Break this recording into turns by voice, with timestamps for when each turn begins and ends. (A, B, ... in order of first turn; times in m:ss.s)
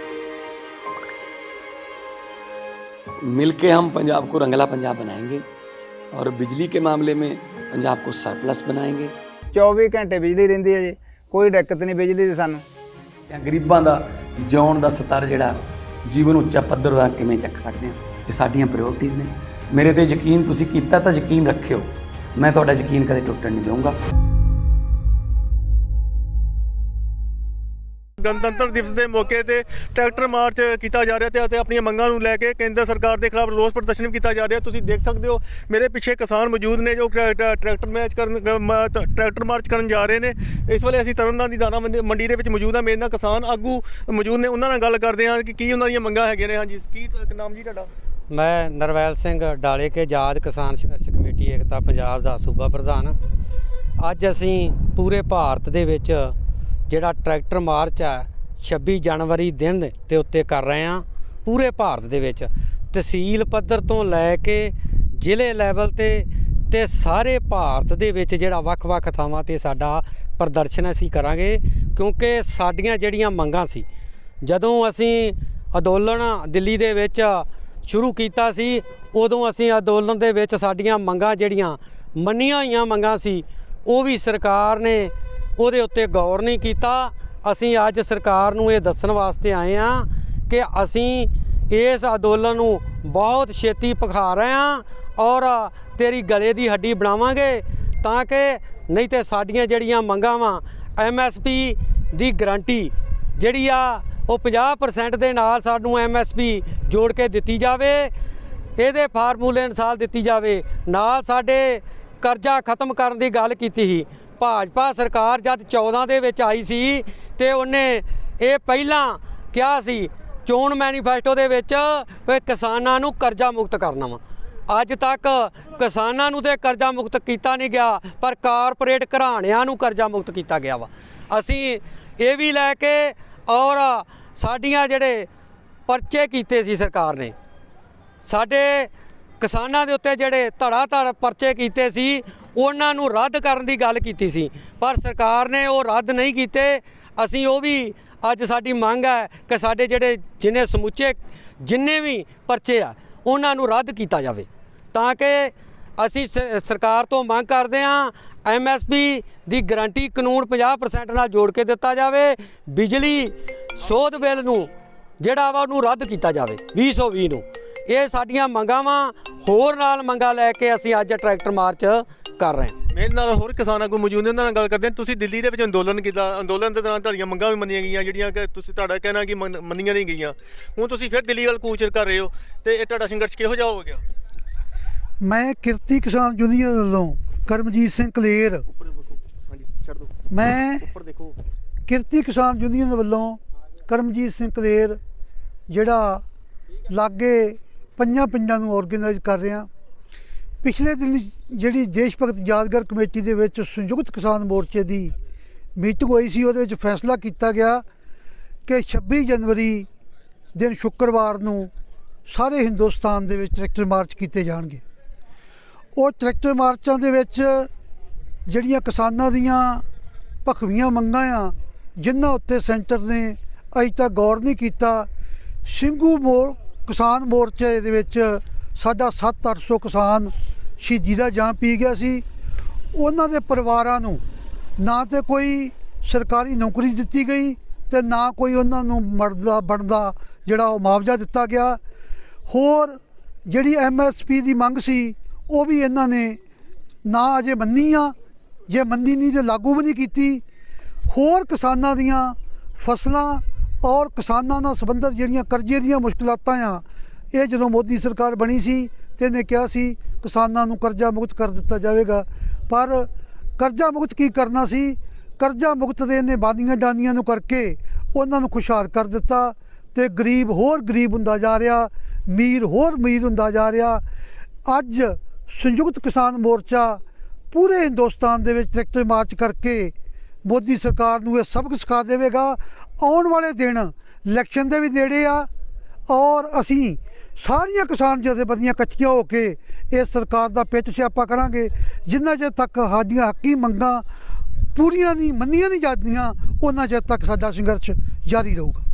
0:03.3-0:05.4 A
0:06.1-0:09.1 A
0:09.6-0:10.9 B
0:11.5-0:12.6 B
0:13.3-0:24.0 A
0:28.2-0:47.9 C
0:48.3-0:53.2 D
0:54.0-0:56.3 D
0:56.9-1:13.8 D
1:14.4-1:48.1 D
1:48.8-2:15.3 D
2:15.9-2:17.3 D
2:18.2-2:44.7 D
2:45.2-2:52.7 D
2:52.9-3:04.0 C
3:05.2-3:08.6 E
3:08.7-3:10.1 C
3:10.3-3:10.9 E
3:10.8-3:11.3 C
3:11.9-3:15.0 E
3:15.7-3:16.2 E
3:16.9-3:19.7 E
3:20.6-3:25.1 E
3:25.8-3:27.8 E
3:28.6-3:29.9 E
3:30.5-3:31.7 E
3:32.3-3:34.8 E
3:36.0-3:37.7 E
3:38.5-3:39.8 E
3:40.4-3:45.1 E
3:45.6-3:52.2 E
3:52.9-3:54.2 E
3:54.8-4:01.8 E
4:02.5-4:06.4 E
4:07.0-4:08.1 E
4:08.7-4:10.4 E
4:11.1-4:34.0 E
4:34.6-4:39.9 E
4:40.4-4:45.5 E
4:46.1-4:54.0 E
4:54.7-4:58.8 E